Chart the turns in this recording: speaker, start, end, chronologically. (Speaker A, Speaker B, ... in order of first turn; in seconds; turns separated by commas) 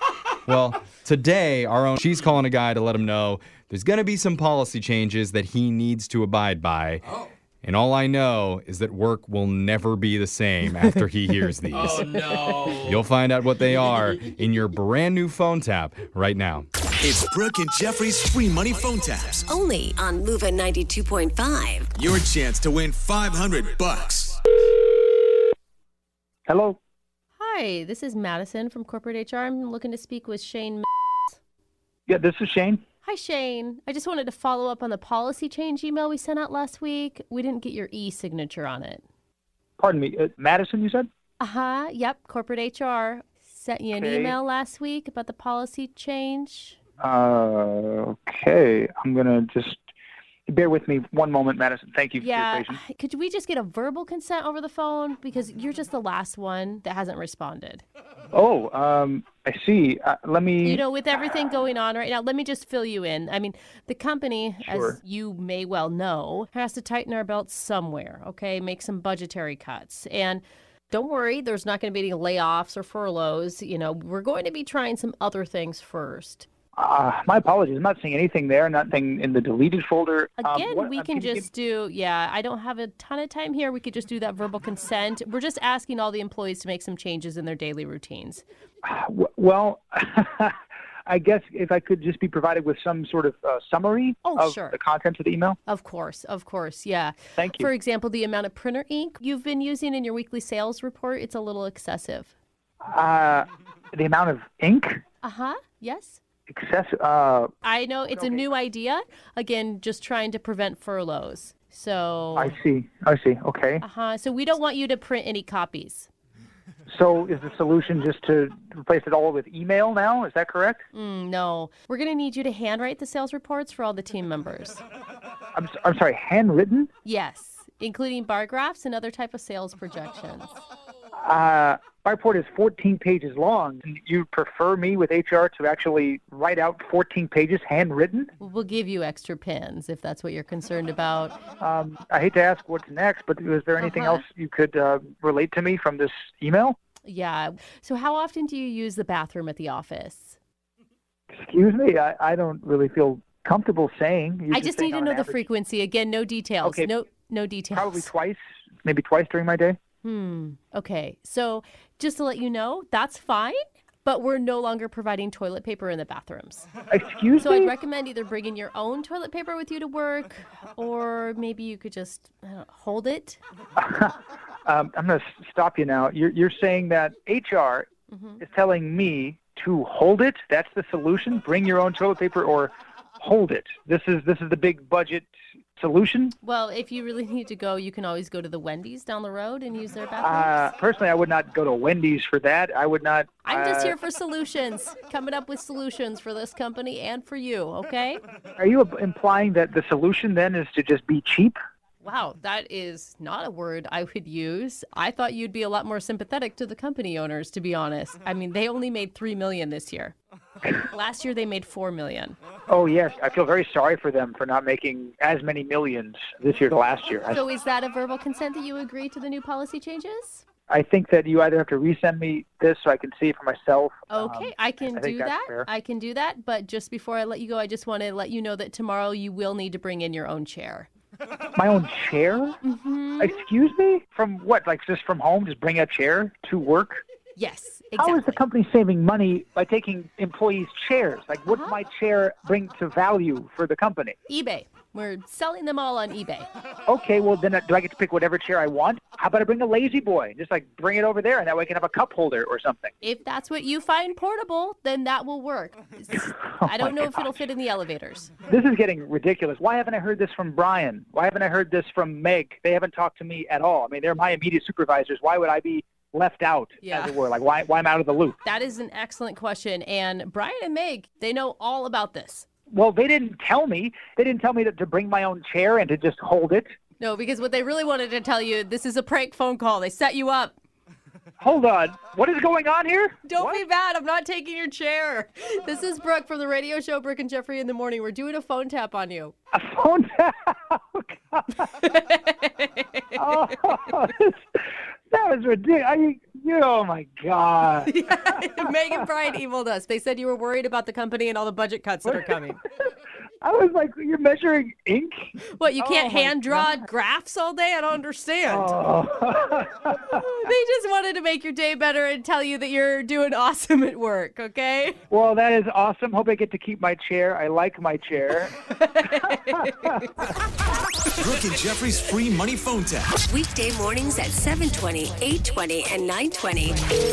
Speaker A: 0.5-7.0, Speaker A: 7.6-16.7, Speaker B: 17.0-19.5, Speaker C: 19.5-21.9, Speaker B: 21.9-24.3, Speaker D: 26.5-26.8, Speaker E: 27.4-31.3, Speaker D: 32.1-32.8, Speaker E: 33.0-39.0, Speaker D: 39.8-41.1, Speaker E: 41.4-46.8, Speaker D: 43.9-44.4, Speaker D: 47.0-49.8, Speaker D: 50.5-52.8, Speaker E: 52.2-57.8, Speaker D: 58.3-60.8, Speaker E: 60.6-76.5, Speaker D: 64.7-65.0, Speaker D: 76.8-81.5, Speaker E: 80.4-88.4, Speaker D: 88.8-90.5, Speaker D: 91.1-95.6, Speaker E: 94.2-94.8, Speaker E: 95.7-102.3, Speaker D: 97.4-97.7, Speaker D: 102.8-105.0, Speaker E: 105.2-106.2, Speaker D: 106.5-107.5, Speaker E: 107.6-112.5, Speaker D: 108.1-108.4, Speaker D: 112.3-113.8, Speaker E: 113.8-116.1, Speaker D: 116.9-120.8, Speaker E: 120.9-124.8, Speaker D: 125.5-126.9, Speaker E: 127.0-130.5, Speaker D: 131.2-138.3, Speaker E: 138.4-141.4, Speaker D: 141.6-146.8, Speaker E: 143.8-144.2, Speaker E: 147.0-150.4, Speaker D: 151.3-155.4, Speaker E: 154.5-158.1, Speaker D: 156.6-156.9, Speaker D: 157.7-159.8, Speaker E: 160.0-166.7, Speaker D: 166.9-167.7, Speaker E: 167.4-173.4, Speaker D: 173.8-177.9, Speaker E: 178.1-178.4, Speaker D: 178.4-186.3, Speaker E: 186.4-190.7, Speaker D: 190.2-193.9, Speaker E: 193.4-198.2, Speaker D: 198.6-201.6, Speaker E: 202.0-210.1, Speaker E: 210.8-212.3, Speaker D: 212.7-217.4, Speaker E: 217.3-220.4, Speaker D: 220.7-225.7, Speaker E: 224.1-230.9, Speaker D: 231.6-232.6, Speaker E: 232.6-233.4, Speaker D: 233.2-237.0, Speaker E: 237.3-238.4, Speaker D: 238.0-244.2, Speaker E: 241.5-241.7, Speaker E: 244.3-246.5, Speaker D: 246.8-252.9, Speaker E: 253.0-258.3, Speaker D: 256.1-257.4, Speaker D: 258.5-268.4, Speaker E: 266.8-267.1, Speaker E: 268.4-272.4, Speaker D: 272.7-276.7, Speaker E: 277.0-280.6, Speaker D: 281.4-283.6, Speaker E: 283.2-289.3, Speaker D: 289.5-291.6, Speaker E: 291.8-293.2, Speaker D: 293.2-297.9, Speaker E: 297.8-302.6, Speaker D: 302.1-302.4, Speaker D: 303.4-306.7, Speaker E: 305.5-308.7, Speaker D: 308.5-310.0, Speaker E: 310.1-315.0, Speaker D: 315.1-318.5, Speaker E: 318.7-320.1, Speaker B: 321.2-323.2, Speaker C: 323.2-326.8